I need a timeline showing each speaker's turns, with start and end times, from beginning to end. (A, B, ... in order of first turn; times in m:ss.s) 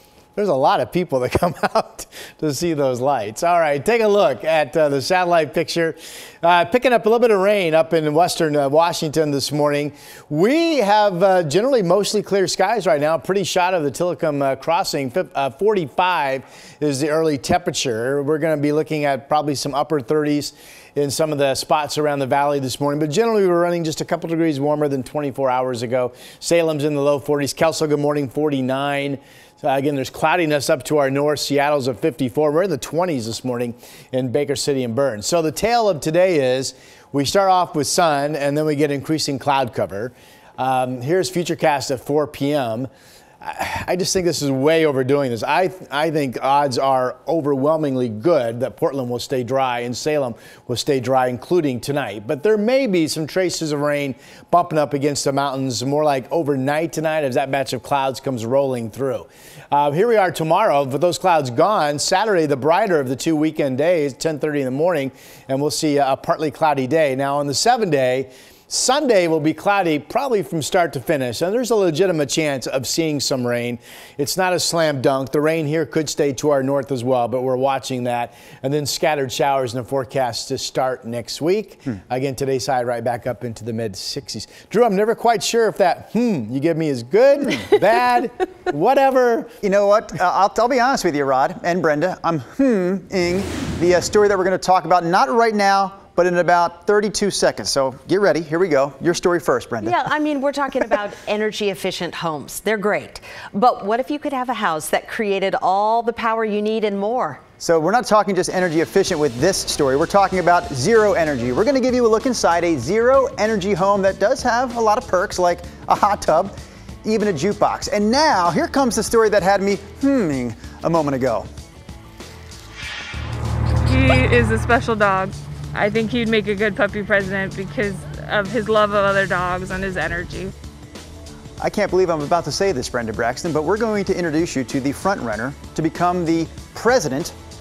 0:00.4-0:42.9 A
0:43.4-1:29.5 A
1:29.6-1:40.0 B
1:39.8-1:47.4 C
1:47.6-2:01.5 B
2:03.9-2:10.5 D
2:11.6-2:17.4 B